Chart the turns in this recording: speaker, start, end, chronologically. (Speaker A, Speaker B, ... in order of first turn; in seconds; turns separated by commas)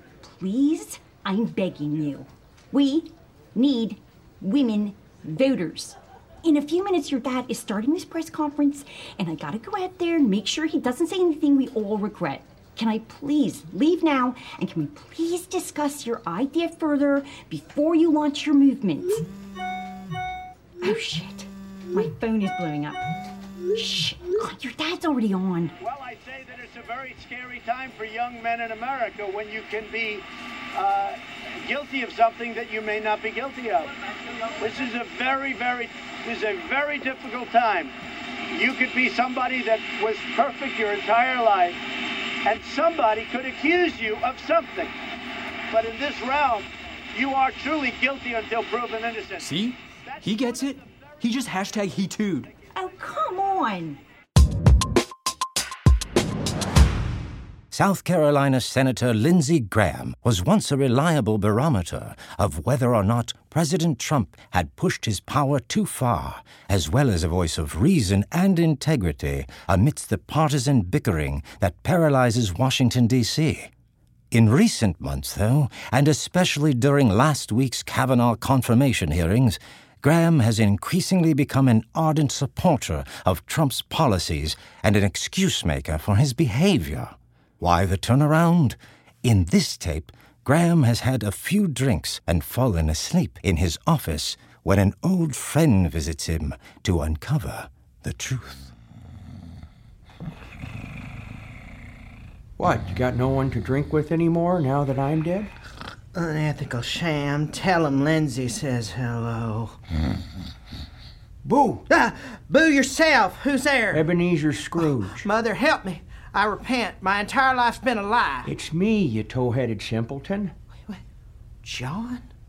Speaker A: 0.2-19.2, Speaker A: 20.8-23.1, Speaker A: 23.7-25.7, Speaker B: 25.8-37.9, Speaker B: 38.5-41.8, Speaker B: 42.4-44.9, Speaker B: 45.7-49.5, Speaker C: 49.4-52.5, Speaker B: 50.0-50.7, Speaker A: 52.7-54.0, Speaker D: 57.7-73.7, Speaker D: 74.3-98.7, Speaker E: 102.6-105.5, Speaker F: 106.1-109.8, Speaker E: 111.4-111.8, Speaker F: 111.9-114.1, Speaker E: 113.9-115.2, Speaker F: 114.8-118.5, Speaker E: 118.4-120.5, Speaker F: 121.6-122.3